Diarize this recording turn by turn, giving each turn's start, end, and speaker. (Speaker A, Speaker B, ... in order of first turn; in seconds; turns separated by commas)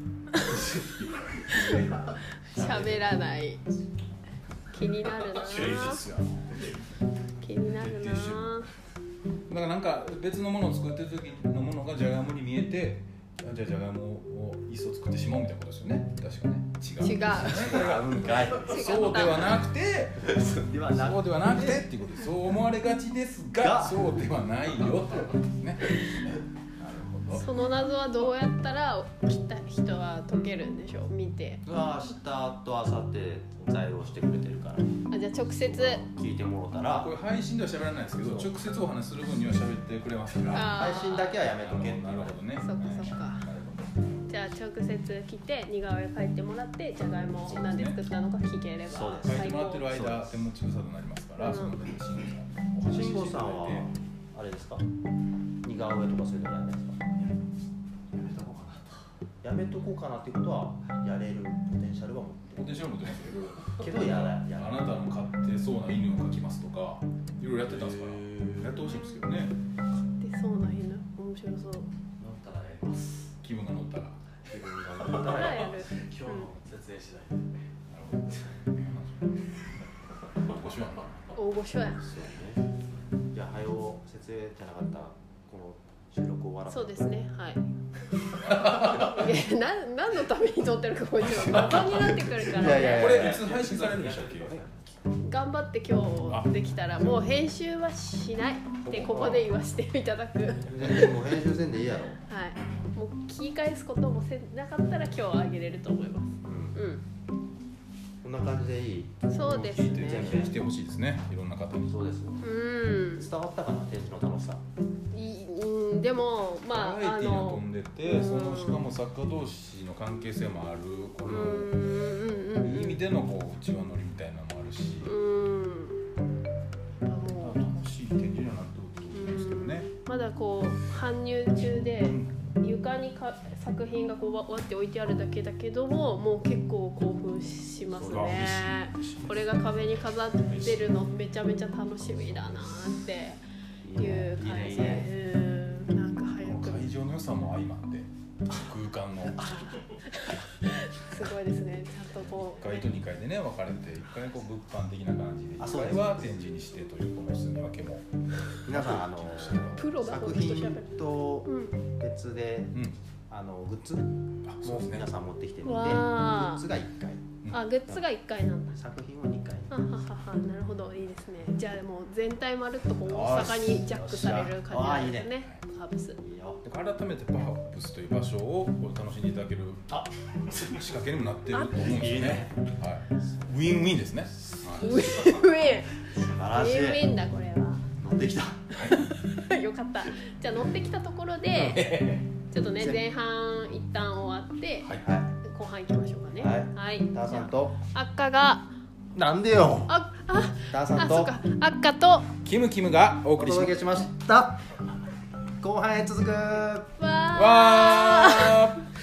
Speaker A: 0.4-2.9, Speaker B: 2.5-3.6, Speaker C: 2.5-3.1, Speaker B: 4.7-6.0, Speaker A: 5.1-6.7, Speaker B: 7.4-8.7, Speaker A: 7.8-8.6, Speaker A: 9.5-27.8, Speaker B: 17.0-17.7, Speaker C: 17.4-19.2, Speaker B: 18.4-19.6, Speaker C: 20.6-21.9, Speaker C: 23.6-24.0, Speaker B: 27.3-31.7, Speaker C: 31.7-34.9, Speaker B: 35.1-36.0, Speaker C: 35.6-37.1, Speaker A: 36.9-44.3, Speaker C: 38.2-38.5, Speaker B: 40.5-41.4, Speaker C: 40.7-42.4, Speaker B: 42.6-43.5, Speaker B: 44.3-49.9, Speaker A: 47.4-48.0, Speaker C: 48.9-50.3, Speaker A: 49.2-53.9, Speaker B: 51.4-51.8, Speaker C: 52.9-54.9, Speaker C: 55.6-57.1, Speaker D: 58.1-59.0, Speaker C: 59.4-62.7, Speaker A: 62.6-69.6, Speaker C: 63.8-64.9, Speaker B: 68.8-69.2, Speaker B: 70.0-71.9, Speaker D: 72.2-73.2, Speaker A: 73.4-74.2, Speaker C: 74.5-75.8, Speaker D: 74.8-77.5, Speaker B: 75.2-76.5, Speaker A: 77.9-79.4, Speaker A: 80.4-81.3, Speaker B: 81.3-82.0, Speaker C: 81.9-82.6, Speaker C: 83.3-87.2, Speaker B: 86.7-87.7, Speaker B: 88.4-93.3, Speaker A: 88.6-89.0, Speaker A: 91.4-95.0, Speaker C: 92.3-93.5, Speaker D: 93.1-94.6, Speaker B: 95.2-101.2, Speaker A: 96.3-97.3, Speaker C: 98.9-99.5, Speaker C: 100.7-102.2, Speaker B: 102.3-107.0, Speaker C: 106.4-106.8, Speaker C: 108.2-110.6, Speaker B: 109.3-110.5, Speaker A: 109.5-112.0, Speaker C: 111.9-112.4, Speaker B: 112.4-113.3, Speaker C: 113.2-114.6, Speaker B: 115.1-118.8, Speaker A: 116.7-121.8, Speaker B: 121.2-123.0, Speaker A: 122.6-125.2, Speaker B: 125.0-126.0, Speaker B: 127.0-127.7, Speaker A: 127.3-129.9, Speaker B: 129.1-143.4, Speaker A: 131.8-132.3, Speaker A: 137.9-139.5, Speaker A: 140.5-140.9, Speaker C: 143.8-145.1, Speaker B: 143.9-146.9, Speaker A: 146.4-149.5, Speaker B: 149.4-152.9, Speaker A: 152.2-158.1, Speaker C: 155.6-156.2, Speaker A: 158.6-159.9, Speaker C: 158.7-162.8, Speaker B: 159.8-160.9, Speaker B: 161.5-161.8, Speaker C: 163.3-168.1, Speaker A: 164.4-165.1, Speaker B: 165.7-166.7, Speaker B: 167.5-168.8, Speaker C: 168.7-169.7, Speaker B: 169.7-176.2, Speaker C: 173.1-175.4, Speaker C: 176.2-176.6, Speaker A: 176.6-185.1, Speaker C: 181.7-182.5, Speaker C: 183.2-183.6, Speaker B: 184.8-187.8, Speaker C: 184.9-185.4, Speaker C: 186.0-187.2, Speaker C: 188.0-188.6, Speaker A: 188.8-189.0, Speaker B: 188.9-191.9, Speaker A: 191.5-192.3, Speaker B: 192.5-198.7, Speaker C: 192.8-193.0, Speaker C: 194.9-195.3, Speaker C: 196.4-197.8, Speaker C: 199.1-200.0, Speaker B: 199.9-202.3, Speaker C: 200.6-201.4, Speaker A: 202.4-203.9, Speaker C: 203.4-204.6, Speaker C: 205.6-206.9, Speaker B: 207.0-208.7, Speaker A: 207.3-208.8